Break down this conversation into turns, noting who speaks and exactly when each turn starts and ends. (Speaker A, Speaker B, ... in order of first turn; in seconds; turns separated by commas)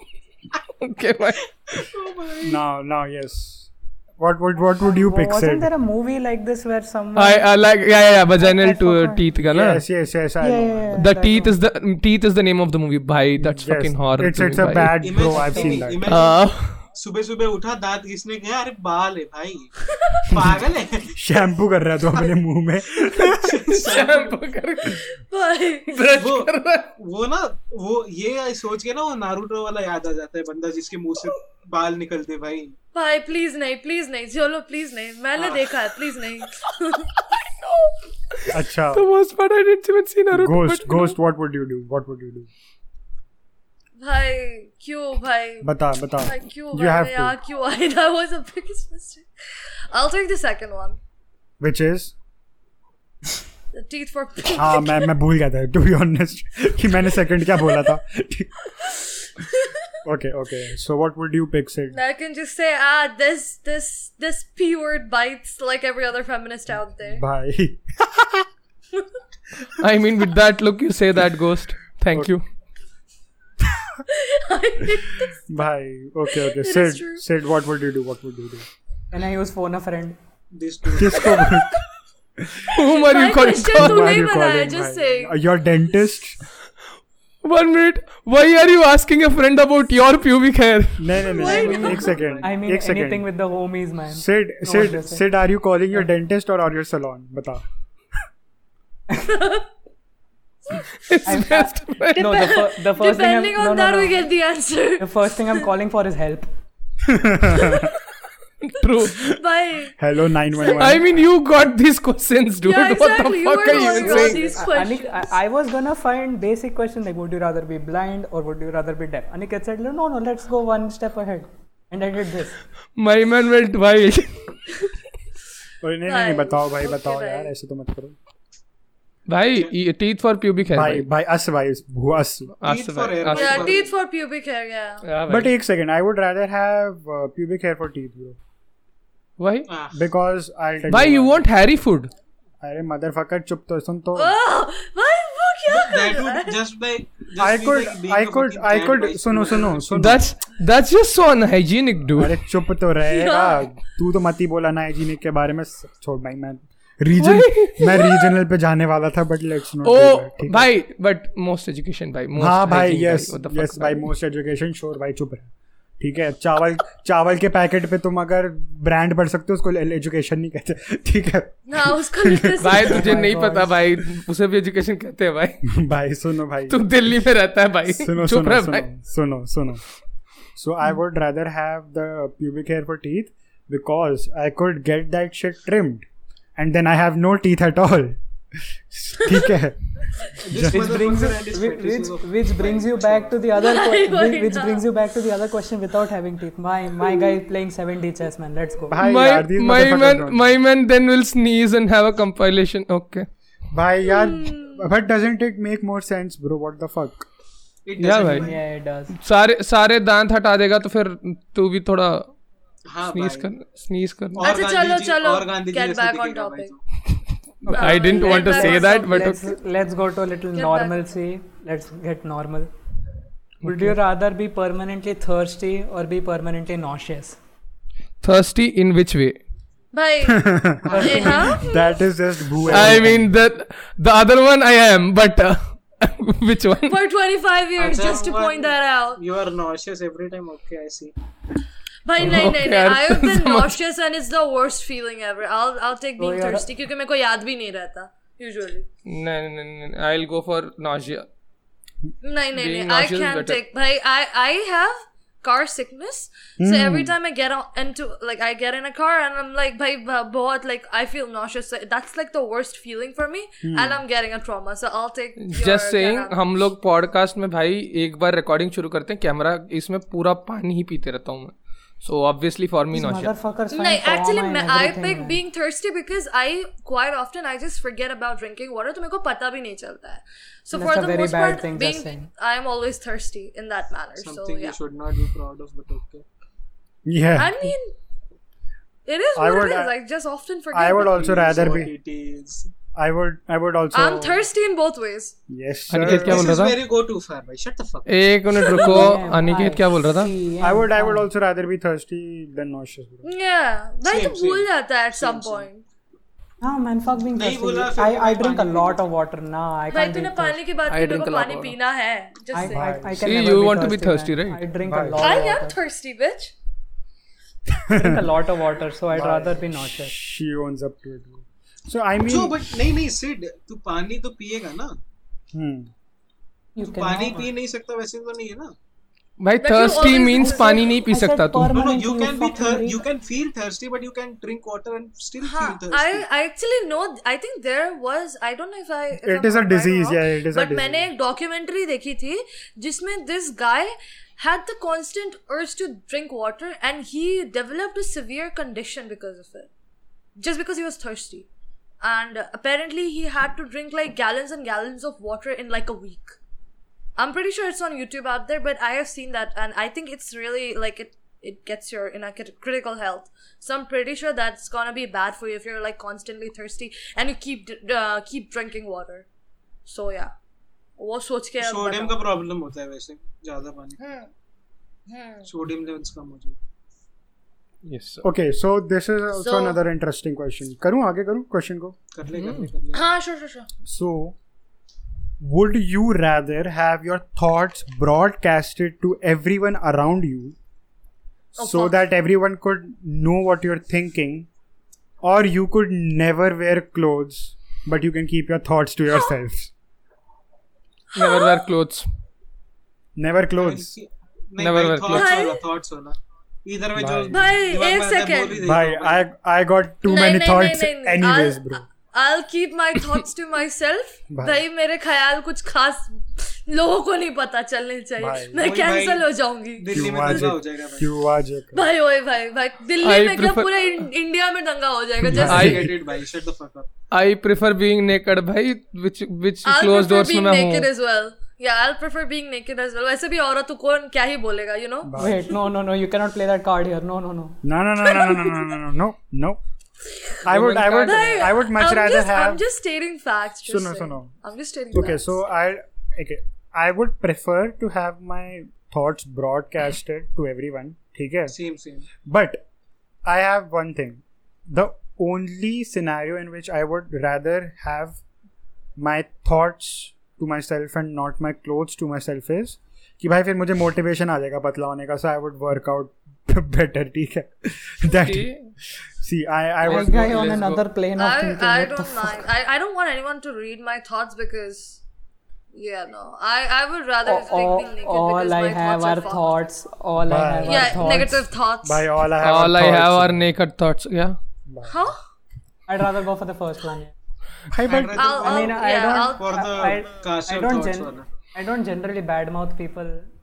Speaker A: 0.8-1.9, Speaker B: 1.7-2.6, Speaker C: 2.4-5.7, Speaker D: 4.8-7.5, Speaker A: 7.1-9.8, Speaker D: 8.4-9.2, Speaker C: 9.5-11.0, Speaker D: 10.4-11.5, Speaker A: 11.0-14.9, Speaker C: 13.4-16.2, Speaker B: 15.0-19.7, Speaker D: 15.2-15.9, Speaker A: 16.1-16.8, Speaker B: 20.2-21.2, Speaker C: 20.3-20.6, Speaker C: 21.1-23.6, Speaker A: 23.1-25.1, Speaker B: 23.2-24.4, Speaker E: 24.8-26.0, Speaker A: 25.9-26.9, Speaker B: 26.1-32.7, Speaker E: 32.9-37.1, Speaker B: 35.4-35.7, Speaker A: 37.6-41.1, Speaker C: 38.5-39.1, Speaker C: 40.3-42.5, Speaker E: 44.0-45.7, Speaker C: 45.6-47.3, Speaker E: 46.2-51.0, Speaker C: 51.6-52.1, Speaker E: 53.7-55.1, Speaker C: 54.5-58.5, Speaker E: 58.8-59.9, Speaker C: 60.0-62.0, Speaker E: 61.9-67.2, Speaker C: 67.0-68.5, Speaker A: 69.8-72.4, Speaker E: 74.1-75.4, Speaker C: 75.5-78.7, Speaker E: 76.3-77.2, Speaker D: 79.1-80.2, Speaker B: 80.5-81.6, Speaker C: 81.0-81.8, Speaker C: 82.4-82.7, Speaker A: 82.7-84.1, Speaker E: 82.9-85.3, Speaker C: 83.7-86.4, Speaker A: 87.4-91.2, Speaker C: 91.0-93.3, Speaker B: 91.2-92.5, Speaker E: 91.3-92.2, Speaker D: 91.4-95.2, Speaker C: 94.1-97.6, Speaker E: 99.1-99.7, Speaker A: 100.8-102.6, Speaker D: 101.2-104.3, Speaker E: 102.2-105.6, Speaker D: 105.0-106.5, Speaker C: 107.0-107.9, Speaker E: 107.5-108.0, Speaker A: 108.6-109.3, Speaker E: 109.2-110.0, Speaker C: 110.0-111.0, Speaker E: 110.5-111.0, Speaker A: 110.7-114.5, Speaker E: 112.6-115.3, Speaker D: 113.9-122.6, Speaker A: 123.0-124.9, Speaker C: 125.8-128.1, Speaker E: 126.1-127.5, Speaker A: 129.3-131.1, Speaker C: 130.7-132.5, Speaker A: 132.6-133.8, Speaker B: 132.6-133.9, Speaker E: 133.3-135.1, Speaker A: 135.0-135.5, Speaker C: 135.3-138.4, Speaker A: 139.4-139.7, Speaker B: 139.7-140.0, Speaker C: 139.9-141.4, Speaker A: 140.9-142.1, Speaker C: 142.6-144.3, Speaker E: 144.1-146.6, Speaker B: 145.7-150.3, Speaker C: 147.4-150.3, Speaker A: 149.9-152.4, Speaker C: 152.2-160.7, Speaker E: 153.1-153.7, Speaker A: 157.1-158.2, Speaker A: 159.8-164.1, Speaker C: 162.4-172.8, Speaker E: 171.7-173.1, Speaker A: 172.6-175.7, Speaker D: 172.8-173.7, Speaker C: 175.6-176.9, Speaker A: 176.7-178.9, Speaker C: 177.9-179.8, Speaker C: 180.5-191.0, Speaker E: 189.2-189.5, Speaker B: 190.4-193.4, Speaker D: 190.7-199.0, Speaker E: 193.6-194.9, Speaker C: 198.9-200.6, Speaker A: 199.0-203.3, Speaker C: 203.7-207.3, Speaker E: 204.0-204.8, Speaker B: 207.8-208.6, Speaker A: 208.0-208.5, Speaker D: 208.3-209.2, Speaker A: 209.1-212.3, Speaker B: 212.9-213.5, Speaker A: 213.0-214.4, Speaker B: 214.4-216.8, Speaker E: 214.4-216.7, Speaker A: 217.7-219.5, Speaker D: 217.7-222.7, Speaker E: 217.7-219.4, Speaker E: 220.5-221.0, Speaker A: 223.6-223.9, Speaker D: 223.6-227.4, Speaker A: 228.2-229.4, Speaker E: 229.9-232.0, Speaker C: 230.2-233.3, Speaker B: 230.9-231.4, Speaker D: 230.9-231.6, Speaker A: 232.7-237.0, Speaker E: 236.9-239.2, Speaker B: 237.8-241.1, Speaker E: 242.0-248.8, Speaker A: 242.2-243.8, Speaker D: 246.2-246.7, Speaker A: 249.1-251.3, Speaker E: 252.2-266.6, Speaker A: 252.5-253.6, Speaker C: 256.6-257.1, Speaker C: 263.6-264.0, Speaker A: 265.4-273.3, Speaker D: 272.9-275.4, Speaker E: 273.7-284.8, Speaker D: 280.7-282.3, Speaker B: 284.2-286.2, Speaker C: 287.1-287.6, Speaker E: 287.4-288.0, Speaker E: 289.1-291.3, Speaker C: 289.3-289.9, Speaker C: 290.7-291.9, Speaker B: 291.1-292.7, Speaker C: 292.9-294.4, Speaker E: 293.9-295.4, Speaker C: 295.5-296.5, Speaker A: 295.9-296.8, Speaker B: 296.0-298.1, Speaker A: 298.1-300.3, Speaker D: 298.7-301.2, Speaker E: 298.8-299.1, Speaker C: 300.6-303.2, Speaker E: 303.2-305.8, Speaker B: 304.0-305.7, Speaker D: 306.6-310.6, Speaker B: 307.3-309.0, Speaker E: 309.9-312.9, Speaker A: 310.9-311.8, Speaker D: 312.5-315.8, Speaker C: 312.7-313.2, Speaker A: 313.2-314.6, Speaker C: 314.8-315.2, Speaker E: 315.2-316.5, Speaker C: 317.7-318.2, Speaker D: 317.9-320.1, Speaker C: 319.1-322.7, Speaker B: 322.2-325.0, Speaker C: 325.5-325.9, Speaker D: 326.8-327.5, Speaker B: 326.9-328.7, Speaker A: 329.4-331.8, Speaker E: 329.6-331.0, Speaker D: 330.4-333.0, Speaker B: 331.7-336.2, Speaker E: 335.4-349.7, Speaker C: 339.2-341.1, Speaker E: 350.4-351.5, Speaker E: 352.0-356.4, Speaker E: 357.2-369.2, Speaker E: 369.9-370.3, Speaker E: 371.0-372.2, Speaker B: 371.6-374.0, Speaker E: 374.0-374.3, Speaker E: 375.1-375.5, Speaker B: 375.4-376.6, Speaker A: 377.8-378.2, Speaker C: 378.2-381.9, Speaker E: 379.4-379.8, Speaker B: 382.1-383.1, Speaker A: 382.3-382.7, Speaker E: 382.9-383.7, Speaker C: 383.8-384.4, Speaker C: 385.4-390.6, Speaker E: 391.6-391.9, Speaker C: 391.6-394.5, Speaker C: 395.2-399.7, Speaker E: 401.1-401.6, Speaker A: 401.1-402.1, Speaker C: 403.1-403.9, Speaker B: 403.6-409.2, Speaker A: 404.6-405.3, Speaker E: 405.1-405.6, Speaker C: 406.9-407.4, Speaker E: 407.3-408.6, Speaker C: 408.6-411.8, Speaker E: 410.0-420.5, Speaker C: 414.3-414.6, Speaker C: 418.2-418.6, Speaker B: 418.6-421.1, Speaker C: 419.9-421.9, Speaker E: 421.7-425.7, Speaker A: 423.0-424.1, Speaker C: 425.2-425.9, Speaker A: 425.4-425.9, Speaker B: 425.4-426.9, Speaker A: 427.1-430.9, Speaker E: 429.6-435.2, Speaker C: 435.0-435.5, Speaker D: 435.1-437.6, Speaker C: 437.6-439.6, Speaker E: 438.1-438.7, Speaker E: 440.1-440.4, Speaker C: 440.4-442.6, Speaker A: 440.4-441.5, Speaker E: 441.0-445.3, Speaker C: 443.7-444.3, Speaker C: 444.9-451.5, Speaker B: 451.5-452.1, Speaker C: 452.2-452.6, Speaker C: 453.2-458.2, Speaker C: 459.0-468.5, Speaker A: 468.0-468.7, Speaker C: 469.2-470.7, Speaker A: 469.8-470.8, Speaker D: 469.8-472.4, Speaker E: 471.2-475.0, Speaker E: 475.7-479.6, Speaker D: 477.2-481.4, Speaker C: 480.2-481.1, Speaker E: 480.6-482.1, Speaker C: 481.8-483.5, Speaker A: 482.4-484.4, Speaker C: 484.7-485.0, Speaker E: 484.9-485.2, Speaker D: 485.9-487.1, Speaker C: 487.7-488.4, Speaker B: 487.8-491.3, Speaker E: 488.1-489.5, Speaker D: 488.4-493.3